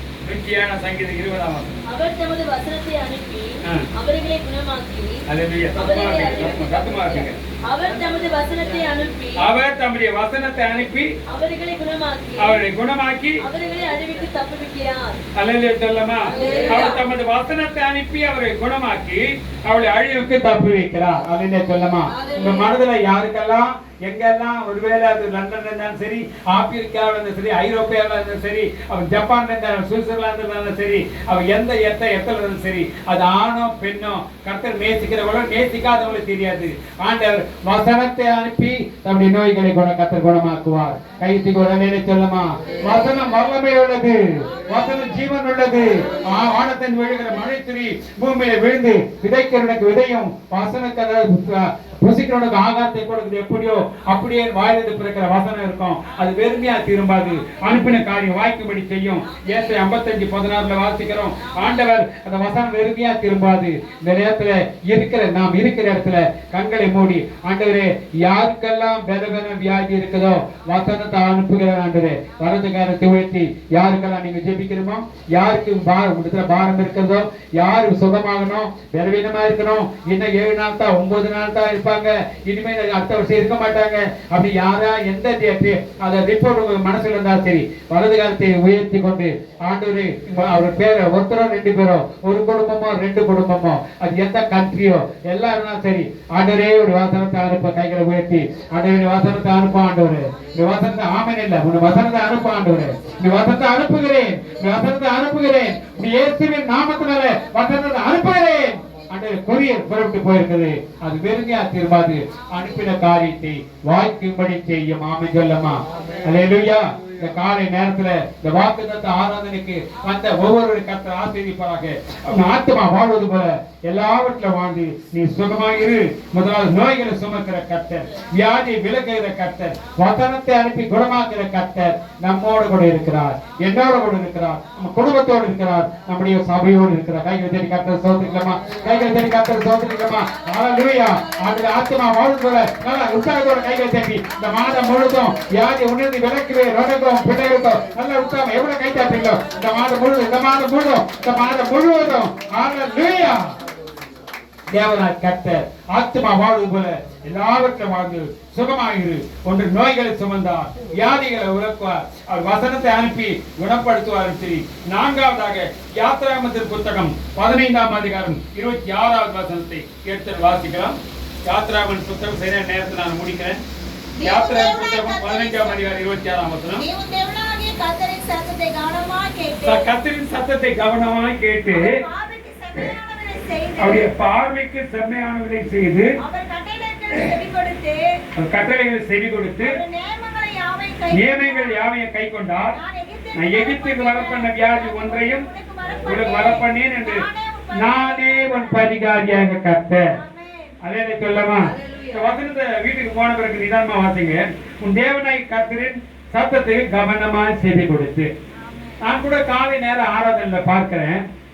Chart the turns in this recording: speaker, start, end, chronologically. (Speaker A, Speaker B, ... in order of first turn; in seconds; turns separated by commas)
Speaker A: 0.2-1.8, Speaker B: 1.9-5.2, Speaker A: 5.3-7.4, Speaker B: 5.8-9.4, Speaker A: 9.4-11.2, Speaker B: 11.3-12.6, Speaker A: 12.4-13.4, Speaker B: 13.4-15.2, Speaker A: 15.3-153.6, Speaker B: 16.3-17.0, Speaker B: 22.1-22.7, Speaker C: 57.3-57.7, Speaker C: 59.2-59.8, Speaker C: 61.4-61.8, Speaker C: 100.3-101.2, Speaker C: 101.9-103.7, Speaker C: 104.5-109.0, Speaker C: 112.3-113.0, Speaker A: 154.7-173.6, Speaker C: 174.2-175.8, Speaker A: 174.2-176.8, Speaker C: 176.8-179.8, Speaker A: 179.6-182.0, Speaker C: 181.7-184.1, Speaker A: 183.8-186.2, Speaker C: 186.2-188.2, Speaker A: 188.3-189.8, Speaker C: 189.6-191.8, Speaker A: 191.1-192.8, Speaker C: 192.7-199.2, Speaker A: 193.3-195.4, Speaker A: 196.0-200.2, Speaker C: 200.1-200.7, Speaker A: 200.8-208.3, Speaker C: 201.8-202.1, Speaker C: 208.6-209.0, Speaker A: 209.0-211.2